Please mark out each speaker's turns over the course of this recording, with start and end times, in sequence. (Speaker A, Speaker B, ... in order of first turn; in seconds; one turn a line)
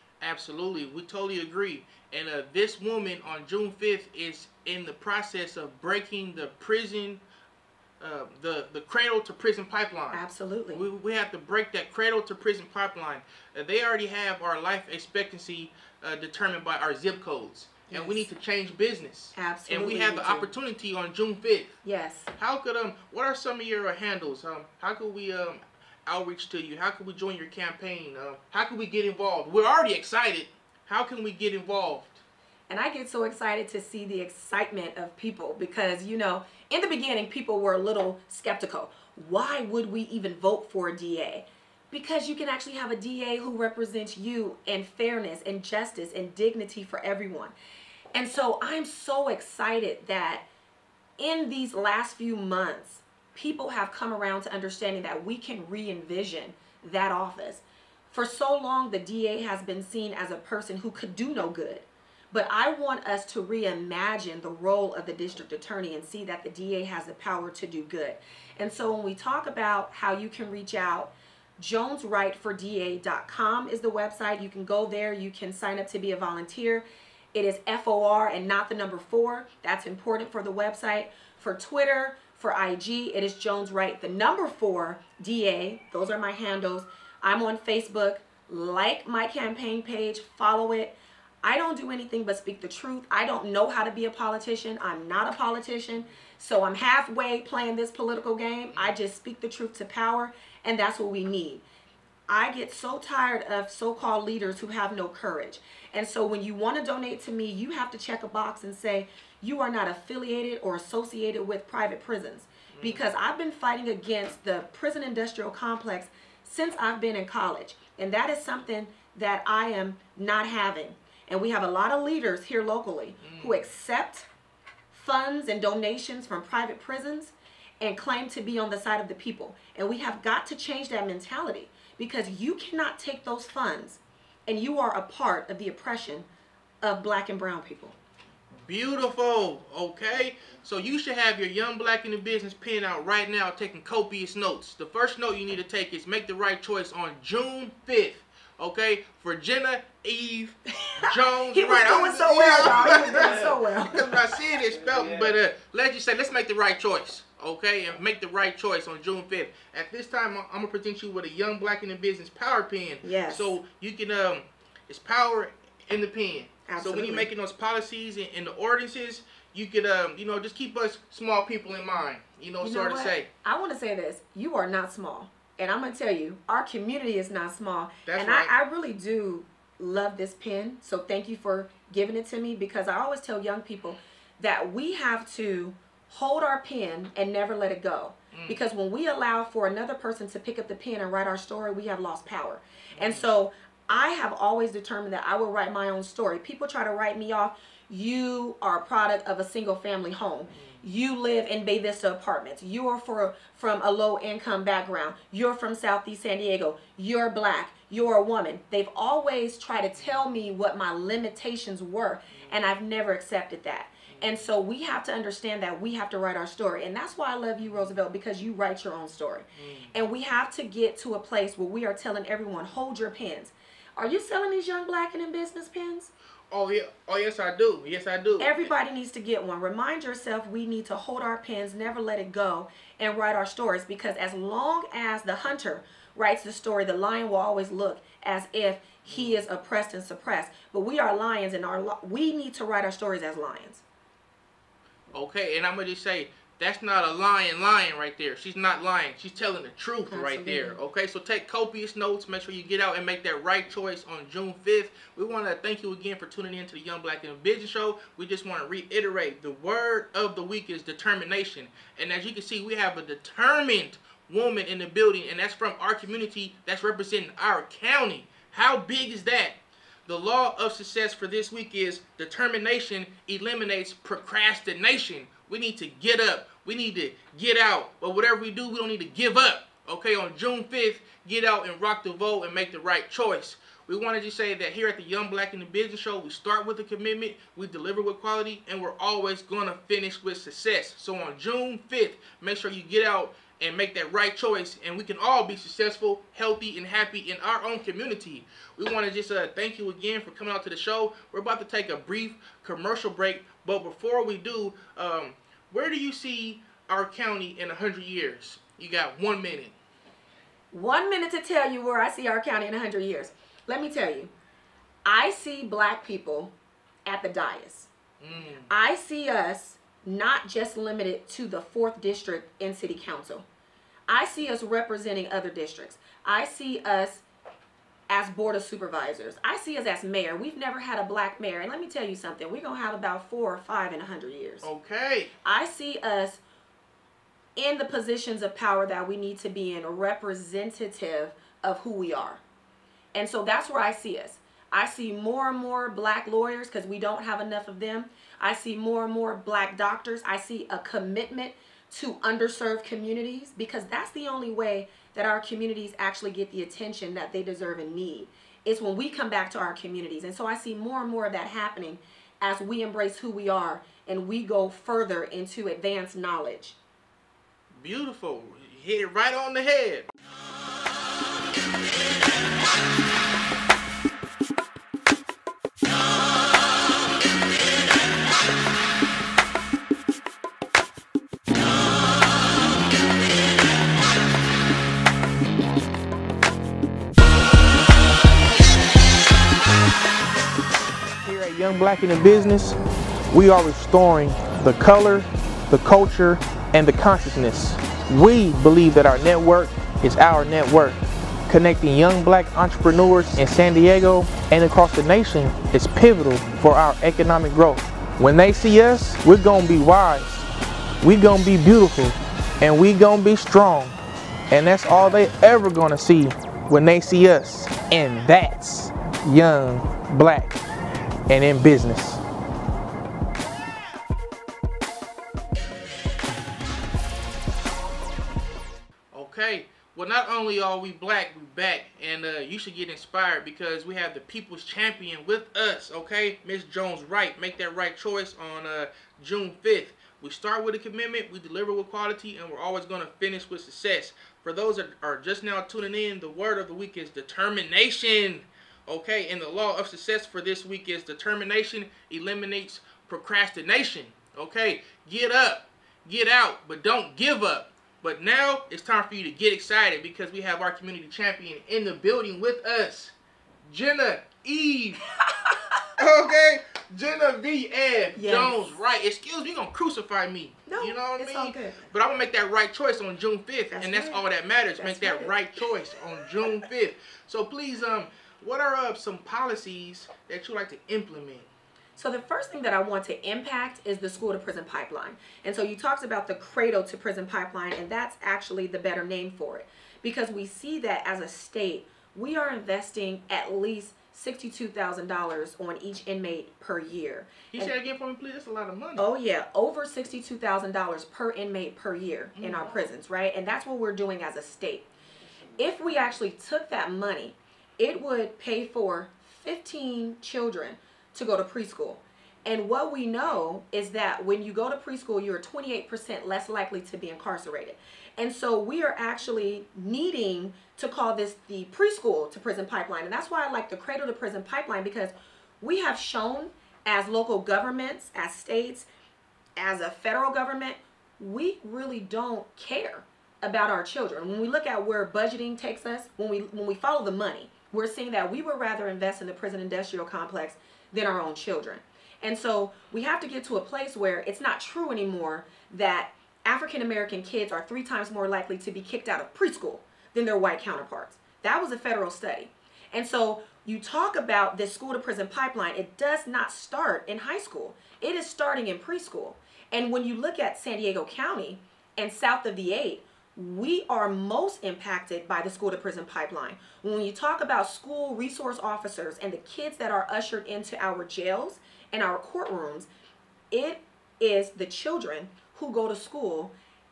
Speaker A: 0.2-7.2
Speaker A: 8.0-10.2
Speaker B: 10.1-10.8
Speaker A: 10.7-21.8
Speaker B: 17.9-18.3
Speaker B: 19.3-20.5
Speaker B: 21.8-22.3
Speaker A: 22.4-32.2
Speaker B: 32.7-47.5
Speaker B: 48.1-50.5
Speaker B: 51.2-101.6
Speaker B: 102.3-124.3
Speaker A: 112.7-113.0
Speaker A: 123.2-123.6
Speaker B: 124.9-136.3
Speaker B: 136.8-137.9
Speaker A: 138.7-173.3
Speaker B: 150.8-154.2
Speaker B: 163.0-163.6
Speaker B: 166.7-167.3
Speaker B: 172.6-226.1
Speaker A: 178.1-178.5
Speaker A: 188.3-188.6
Speaker A: 192.9-193.3
Speaker A: 200.6-200.8
Speaker A: 212.3-212.6
Speaker A: 214.1-214.4
Speaker A: 217.7-217.9
Speaker A: 219.6-219.9
Speaker A: 226.5-228.7
Speaker B: 228.4-243.8
Speaker A: 239.1-239.4
Speaker A: 245.1-309.8
Speaker B: 250.1-250.8
Speaker B: 310.7-314.3
Speaker B: 315.0-316.5
Speaker B: 317.1-317.9
Speaker A: 318.2-318.7
Speaker B: 318.7-323.4
Speaker B: 324.1-327.2
Speaker B: 328.1-334.7
Speaker A: 334.6-335.3
Speaker B: 335.4-336.4
Speaker B: 337.6-342.4
Speaker B: 343.1-366.8
Speaker A: 367.7-370.1
Speaker A: 391.2-392.8
Speaker A: 393.3-410.5
Speaker A: 411.0-413.9
Speaker A: 414.5-420.6
Speaker A: 421.3-422.2
Speaker A: 429.1-463.1
Speaker A: 463.7-465.0
Speaker B: 465.2-465.9
Speaker A: 466.0-481.5
Speaker B: 468.1-468.8
Speaker B: 470.7-471.9
Speaker B: 473.7-474.2
Speaker B: 474.8-475.4
Speaker B: 482.0-497.7
Speaker A: 497.5-499.0
Speaker B: 499.0-504.9
Speaker A: 502.4-502.9
Speaker B: 505.6-528.9
Speaker B: 529.6-572.9
Speaker B: 573.5-576.5